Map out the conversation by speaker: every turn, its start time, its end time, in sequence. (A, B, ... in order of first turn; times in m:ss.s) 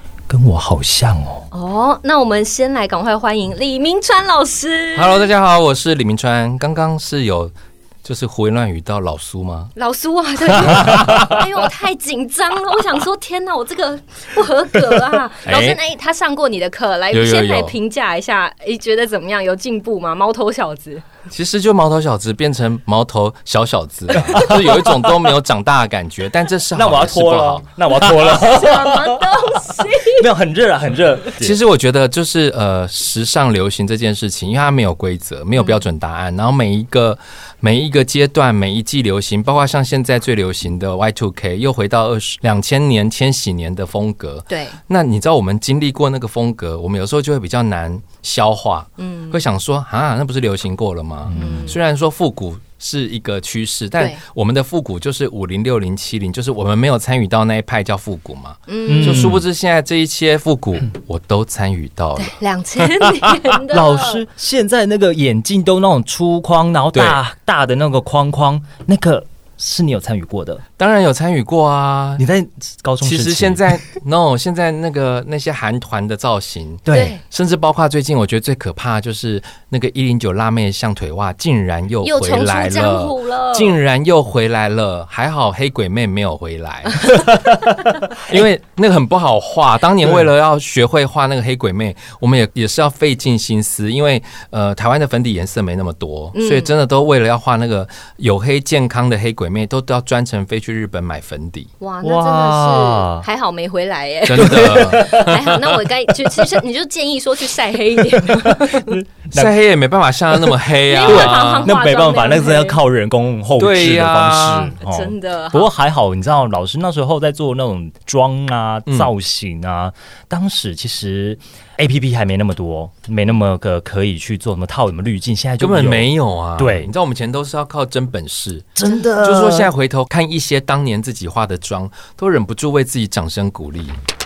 0:00.3-0:01.5 A
0:01.5-0:05.3 B
0:04.9-0:09.7 C
0:09.8-0:21.0 B
0:10.5-0:11.6 C
0:15.4-0:15.8 C
0:17.1-0:17.8 C
0:21.3-0:28.3 C
0:24.1-0:25.1 A
0:26.7-0:31.6 A
0:28.1-0:30.2 B
0:31.4-1:03.4 C
0:35.6-0:35.8 B
0:44.5-0:44.8 B
0:49.0-0:49.4 B
0:51.2-0:51.7 A
0:51.4-0:51.8 B
0:58.7-0:59.4 B
0:58.9-0:59.4 A
1:02.2-1:04.2 B
1:03.7-1:10.6 A
1:06.9-1:07.2 C
1:10.8-1:12.2 C
1:12.2-1:13.8 A
1:13.0-1:41.7 C
1:16.9-1:17.2 A
1:16.9-1:17.2 B
1:22.0-1:23.8 B
1:36.3-1:36.7 B
1:41.8-1:49.0 B
1:42.0-1:43.2 A
1:44.2-1:45.7 C
1:44.4-1:45.4 A
1:46.2-1:46.5 A
1:48.1-1:49.6 A
1:49.3-1:51.8 C
1:50.8-1:52.8 B
1:51.0-2:06.9 A
1:53.6-1:54.8 C
1:54.8-1:55.7 B
2:05.6-2:14.0 C
2:08.8-2:09.7 A